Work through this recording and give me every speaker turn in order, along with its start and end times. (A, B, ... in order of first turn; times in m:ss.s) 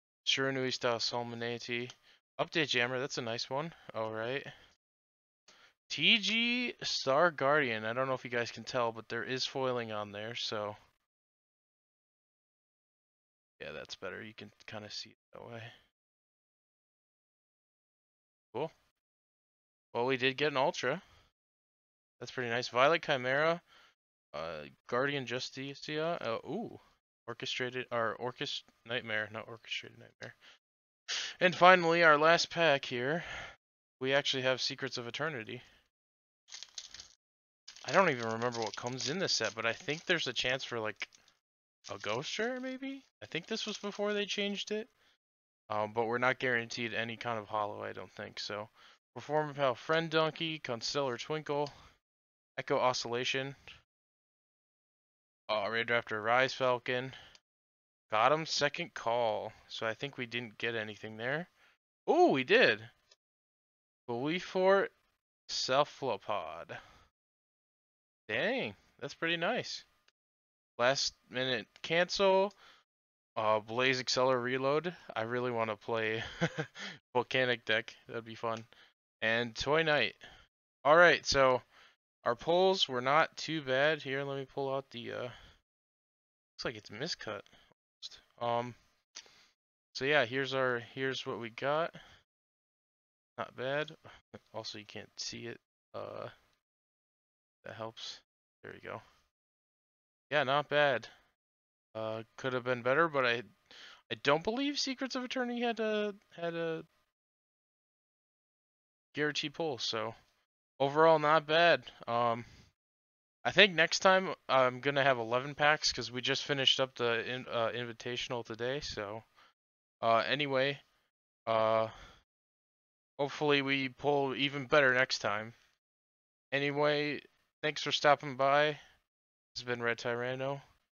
0:00.2-0:04.5 A
0:05.9-0:10.8 A
0:13.6-0:15.7 A
0:19.9-0:21.0 A
0:22.2-0:23.6 A
0:24.3-0:30.4 A
0:31.4-0:33.4 A
0:34.0-0:35.6 A
0:37.8-0:41.1 A
0:41.9-0:44.9 A
0:45.7-0:51.7 A
0:52.6-0:53.6 A
0:55.5-0:57.2 A
0:58.1-1:01.5 A
1:02.1-1:02.9 A
1:04.1-1:04.9 A
1:05.5-1:06.8 A
1:08.3-1:09.8 A
1:10.8-1:12.5 A
1:13.4-1:18.7 A
1:19.2-1:20.2 A
1:20.8-1:21.6 A
1:22.2-1:25.4 A
1:26.6-1:28.8 A
1:29.9-1:32.0 A
1:33.4-1:34.0 A
1:34.5-1:36.3 A
1:37.6-1:39.0 A
1:40.3-1:41.1 A
1:41.9-1:43.5 A
1:44.1-1:46.9 A
1:49.1-1:50.2 A
1:50.8-1:52.5 A
1:53.4-1:59.2 A
2:00.0-2:00.8 A
2:01.5-2:01.9 A
2:03.2-2:05.6 A
2:06.5-2:08.8 A
2:09.5-2:10.6 A